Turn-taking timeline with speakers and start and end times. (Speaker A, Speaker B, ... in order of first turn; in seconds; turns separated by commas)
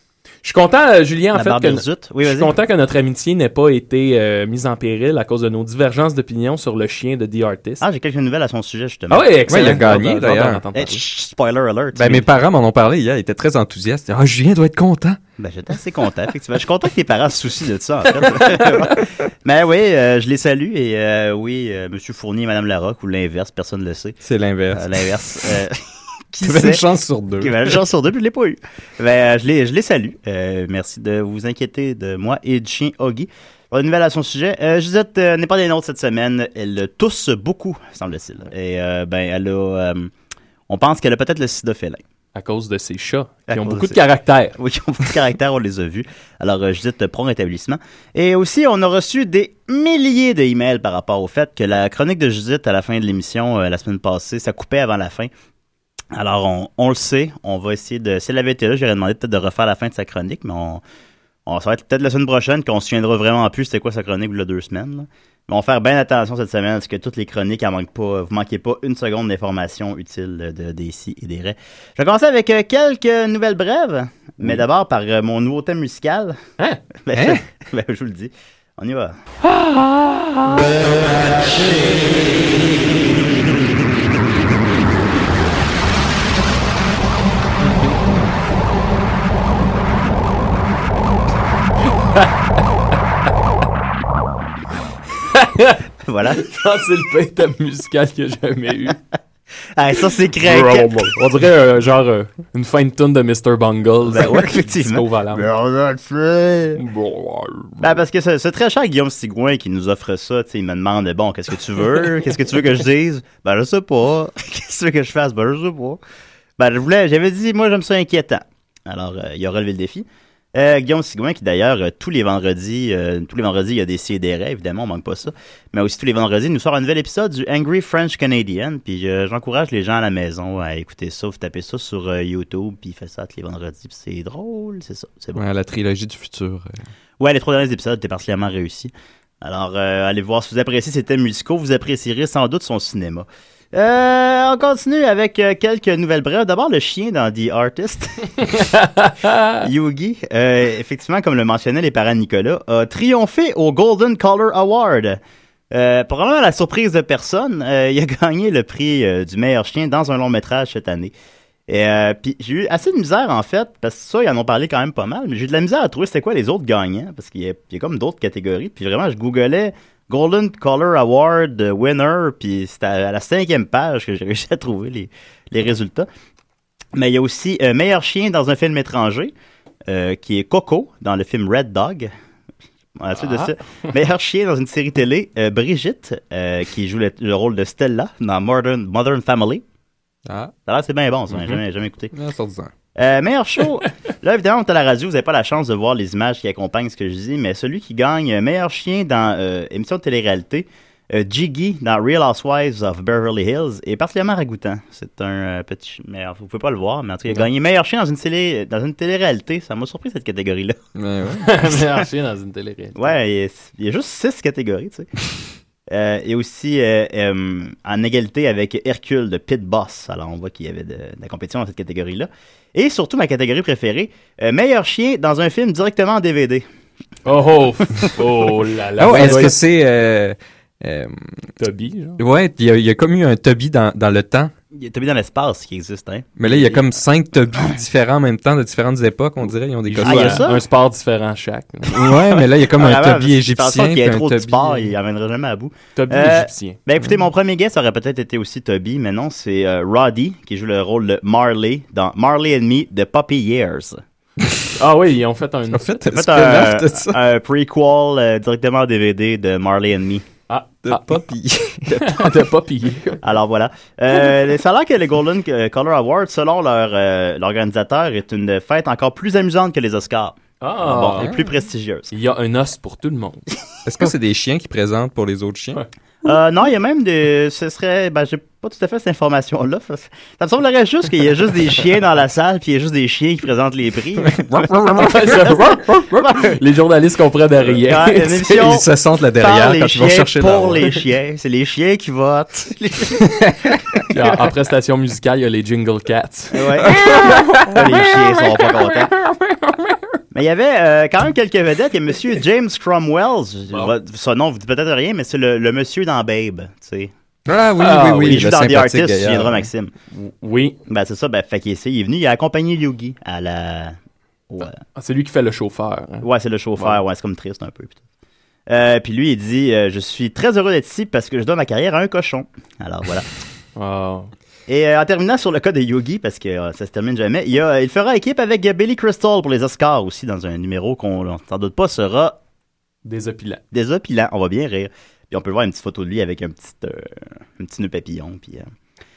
Speaker A: 0.4-7.8, Speaker B: 1.3-2.5, Speaker B: 7.8-9.8, Speaker A: 9.1-11.0, Speaker C: 9.5-10.6, Speaker B: 10.7-12.3, Speaker C: 11.9-15.2, Speaker B: 15.4-24.2, Speaker C: 24.2-25.0, Speaker B: 24.7-25.8, Speaker B: 26.3-26.8, Speaker C: 26.4-27.8, Speaker B: 27.4-40.1, Speaker B: 40.7-42.0, Speaker A: 42.4-44.5, Speaker B: 43.5-44.0, Speaker B: 44.6-55.3, Speaker B: 56.1-60.8, Speaker B: 61.5-76.4, Speaker B: 77.1-79.2, Speaker C: 77.1-77.4, Speaker A: 87.6-88.0, Speaker A: 95.3-95.8, Speaker B: 96.1-96.5, Speaker A: 96.4-99.0, Speaker B: 99.8-101.1, Speaker A: 100.4-105.5, Speaker B: 104.1-106.8, Speaker A: 106.8-108.0, Speaker B: 107.8-116.0, Speaker B: 116.6-135.4, Speaker C: 135.3-136.8, Speaker B: 137.2-148.6, Speaker A: 148.8-149.6, Speaker B: 149.6-155.2, Speaker B: 155.7-161.1, Speaker B: 161.7-176.1, Speaker B: 176.9-179.3, Speaker B: 179.9-182.1, Speaker B: 183.0-189.6, Speaker C: 190.3-190.5, Speaker B: 190.7-192.1, Speaker A: 191.3-191.6, Speaker C: 192.1-192.7, Speaker B: 192.9-210.8, Speaker C: 211.0-211.6, Speaker A: 211.4-213.2, Speaker B: 213.0-215.1, Speaker B: 215.9-226.7, Speaker A: 227.2-229.6, Speaker C: 229.0-231.3, Speaker A: 231.6-232.2, Speaker C: 232.2-234.5, Speaker B: 234.7-237.0, Speaker C: 236.4-240.5, Speaker A: 239.8-242.2, Speaker B: 240.1-240.6, Speaker C: 241.9-244.9, Speaker B: 242.7-254.0, Speaker A: 246.0-246.8, Speaker A: 254.8-256.0, Speaker C: 255.7-257.2, Speaker B: 256.0-260.2, Speaker A: 260.5-261.2, Speaker C: 260.9-262.1, Speaker A: 261.9-263.2, Speaker B: 263.2-272.1, Speaker A: 270.6-271.3, Speaker C: 271.2-271.5, Speaker A: 272.1-273.4, Speaker C: 273.9-275.8, Speaker B: 276.2-286.5, Speaker C: 284.2-285.3, Speaker A: 285.0-288.8, Speaker B: 287.8-288.9, Speaker C: 288.5-290.9, Speaker B: 289.4-293.3, Speaker C: 293.3-294.0, Speaker A: 294.1-297.8, Speaker B: 296.5-299.1, Speaker A: 299.2-299.8, Speaker B: 300.3-307.1, Speaker C: 307.5-309.7, Speaker A: 307.8-308.4, Speaker B: 308.2-309.9, Speaker A: 310.1-310.8, Speaker B: 310.9-313.9, Speaker A: 314.6-317.0, Speaker B: 316.2-318.0, Speaker B: 318.7-323.3, Speaker A: 323.8-324.3, Speaker B: 324.7-332.4, Speaker A: 333.1-333.6, Speaker B: 333.7-338.7